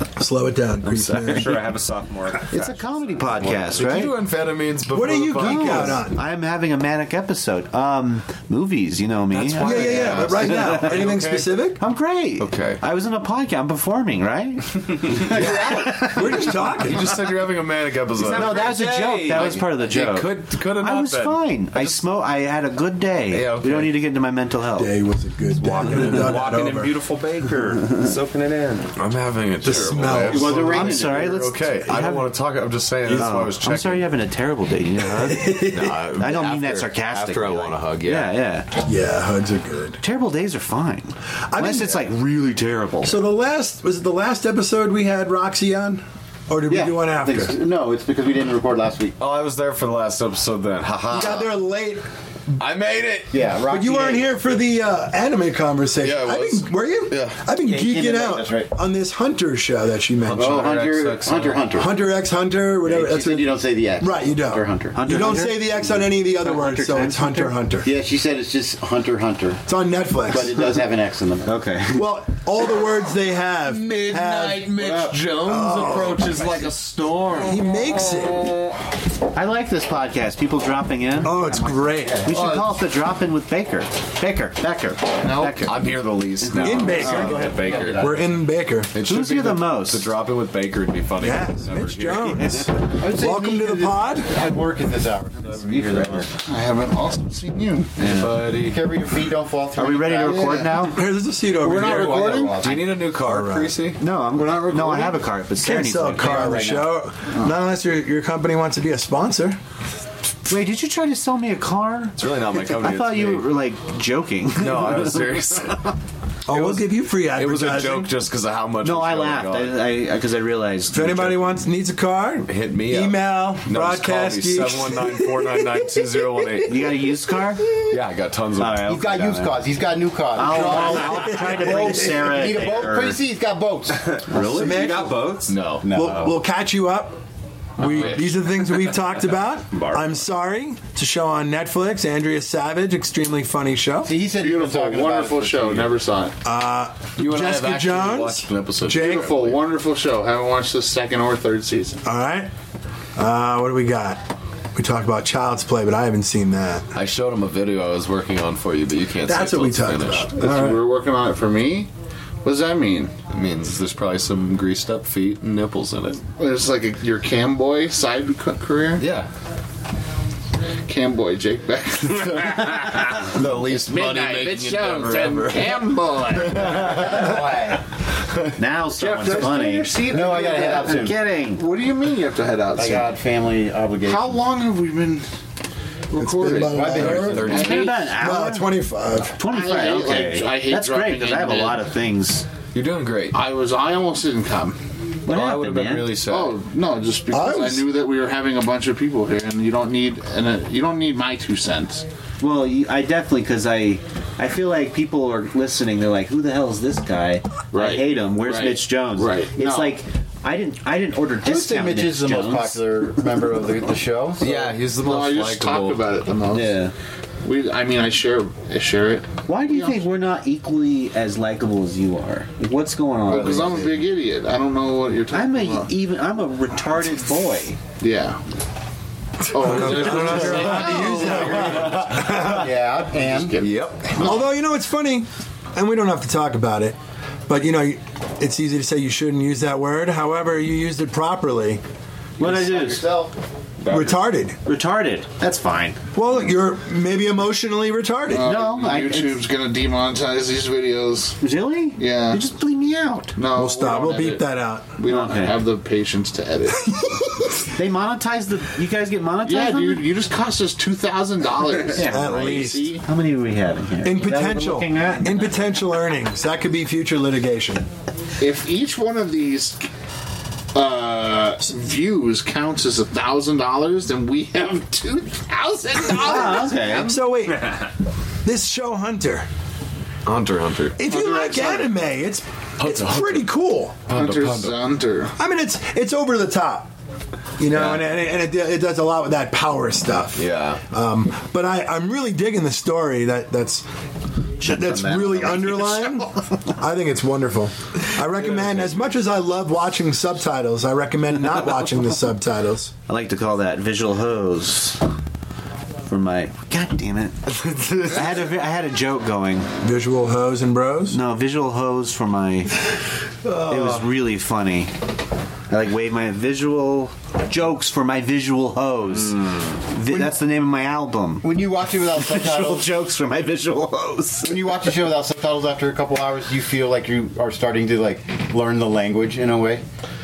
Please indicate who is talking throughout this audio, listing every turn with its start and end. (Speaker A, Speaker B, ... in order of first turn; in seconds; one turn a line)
Speaker A: 0.2-1.6
Speaker B: 0.8-1.5
Speaker C: 1.2-3.7
Speaker D: 2.5-4.2
Speaker B: 3.4-6.0
Speaker A: 4.9-6.2
Speaker D: 5.4-11.0
Speaker B: 9.3-11.5
Speaker A: 9.6-11.8
Speaker D: 11.8-16.6
Speaker B: 12.4-12.8
Speaker E: 15.2-16.2
Speaker B: 15.4-15.7
Speaker A: 15.4-17.1
Speaker B: 16.8-22.0
Speaker C: 18.2-19.6
Speaker D: 18.2-24.9
Speaker B: 23.3-23.9
Speaker A: 24.7-26.9
Speaker C: 25.8-28.9
Speaker B: 28.9-34.1
Speaker A: 29.6-30.7
Speaker E: 30.0-31.5
Speaker D: 30.5-32.3
Speaker D: 33.1-38.7
Speaker A: 35.2-36.0
Speaker B: 35.7-38.3
Speaker A: 38.8-40.0
Speaker D: 40.0-43.2
Speaker A: 41.5-42.0
Speaker A: 43.0-47.5
Speaker E: 46.7-49.2
Speaker B: 49.2-51.5
Speaker A: 51.1-52.0
Speaker B: 52.6-53.4
Speaker E: 53.3-54.3
Speaker A: 53.7-60.7
Speaker B: 56.0-57.4
Speaker E: 57.6-58.7
Speaker B: 60.2-61.7
Speaker E: 60.4-61.9
Speaker A: 61.7-67.9
Speaker E: 62.8-65.2
Speaker D: 64.9-65.9
Speaker D: 66.5-67.5
Speaker E: 67.8-69.6
Speaker A: 69.7-70.7
Speaker E: 70.3-71.5
Speaker D: 71.4-72.0
Speaker A: 71.9-74.8
Speaker B: 73.7-77.6
Speaker E: 74.8-75.2
Speaker A: 75.4-76.4
Speaker A: 77.4-78.5
Speaker D: 79.3-81.7
Speaker A: 81.2-82.3
Speaker E: 82.1-82.5
Speaker D: 82.2-85.9
Speaker F: 85.2-85.6
Speaker B: 85.6-88.2
Speaker D: 86.5-86.9
Speaker A: 86.6-88.9
Speaker E: 86.9-88.3
Speaker B: 88.9-92.6
Speaker D: 89.0-90.1
Speaker A: 91.2-94.3
Speaker D: 92.3-92.7
Speaker E: 92.8-96.3
Speaker B: 95.5-96.0
Speaker F: 96.4-98.0
Speaker B: 98.0-98.8
Speaker E: 98.1-100.9
Speaker D: 99.8-101.0
Speaker F: 100.2-100.7
Speaker A: 100.9-102.6
Speaker B: 101.6-104.0
Speaker E: 101.6-103.1
Speaker A: 103.2-103.8
Speaker D: 104.0-106.7
Speaker A: 105.6-109.6
Speaker E: 106.2-106.8
Speaker D: 110.5-115.3
Speaker B: 112.2-113.5
Speaker B: 114.5-115.9
Speaker A: 116.5-118.1
Speaker B: 116.5-119.8
Speaker D: 118.8-121.6
Speaker A: 120.9-126.5
Speaker B: 122.5-127.0
Speaker D: 126.6-127.7
Speaker B: 127.8-128.9
Speaker D: 128.6-129.6
Speaker E: 128.8-135.1
Speaker D: 130.3-133.2
Speaker A: 130.4-132.4
Speaker C: 134.1-135.6
Speaker A: 134.4-135.2
Speaker B: 135.4-136.0
Speaker E: 135.8-136.3
Speaker A: 135.9-137.2
Speaker A: 137.8-144.1
Speaker B: 137.8-138.2
Speaker C: 139.7-140.2
Speaker E: 144.0-145.9
Speaker F: 144.3-146.3
Speaker A: 146.4-149.3
Speaker B: 147.2-149.6
Speaker F: 148.9-152.0
Speaker A: 152.0-152.5
Speaker A: 153.2-154.2
Speaker A: 154.7-156.8
Speaker B: 156.9-160.3
Speaker A: 159.2-160.8
Speaker F: 160.3-161.9
Speaker F: 162.4-163.2
Speaker B: 163.3-166.2
Speaker F: 166.3-169.0
Speaker B: 169.0-169.3
Speaker F: 170.8-177.0
Speaker B: 172.4-177.3
Speaker E: 176.5-177.8
Speaker D: 178.6-181.6
Speaker F: 179.0-183.1
Speaker E: 180.0-181.2
Speaker E: 182.8-184.4
Speaker F: 184.0-185.2
Speaker F: 186.1-188.0
Speaker A: 186.2-187.6
Speaker B: 186.5-188.0
Speaker E: 186.6-187.7
Speaker D: 187.4-188.8
Speaker A: 188.1-189.4
Speaker D: 189.3-192.4
Speaker F: 189.4-191.9
Speaker B: 192.7-193.4
Speaker F: 193.3-194.8
Speaker D: 195.3-196.2
Speaker B: 195.3-196.6
Speaker F: 196.2-202.0
Speaker A: 197.3-197.9
Speaker D: 202.4-212.8
Speaker F: 207.7-209.9
Speaker E: 211.4-214.7
Speaker B: 214.4-216.1
Speaker F: 215.0-216.8
Speaker D: 216.5-216.9
Speaker F: 217.4-220.0
Speaker D: 219.5-223.9
Speaker F: 223.2-225.9
Speaker E: 223.3-223.9
Speaker D: 225.3-227.8
Speaker F: 228.0-228.4
Speaker F: 229.5-231.8
Speaker A: 229.6-232.4
Speaker B: 229.6-232.4
Speaker E: 230.0-233.6
Speaker F: 233.2-234.4
Speaker B: 233.6-234.2
Speaker A: 234.2-237.0
Speaker A: 237.5-241.8
Speaker D: 242.4-243.0
Speaker E: 242.4-243.3
Speaker A: 243.9-244.6
Speaker D: 244.6-246.0
Speaker A: 246.1-248.5
Speaker F: 248.3-251.4
Speaker D: 248.4-249.4
Speaker D: 251.4-253.3
Speaker F: 252.0-252.4
Speaker F: 253.3-257.0
Speaker A: 253.5-254.9
Speaker D: 255.1-255.6
Speaker D: 257.7-260.0
Speaker F: 259.4-263.0
Speaker D: 261.9-262.4
Speaker A: 262.0-263.0
Speaker D: 263.0-265.5
Speaker A: 264.0-267.9
Speaker F: 268.4-269.9
Speaker F: 270.7-277.2
Speaker D: 276.1-277.1
Speaker A: 276.9-277.8
Speaker A: 278.4-279.5
Speaker B: 280.2-281.0
Speaker A: 281.0-284.0
Speaker F: 281.1-281.9
Speaker B: 282.8-283.5
Speaker B: 284.1-284.8
Speaker F: 284.1-285.3
Speaker A: 285.4-286.9
Speaker A: 287.6-293.9
Speaker B: 287.7-288.0
Speaker B: 290.4-290.8
Speaker A: 294.6-302.9
Speaker D: 294.6-295.6
Speaker B: 298.4-299.0
Speaker D: 303.1-305.0
Speaker D: 306.1-307.4
Speaker B: 307.5-308.4
Speaker D: 308.0-309.7
Speaker A: 309.8-311.2
Speaker D: 311.1-312.9
Speaker B: 313.4-314.0
Speaker D: 313.6-314.9
Speaker D: 315.7-321.6
Speaker A: 320.1-320.4
Speaker E: 321.4-322.9
Speaker D: 322.1-324.6
Speaker E: 324.4-329.8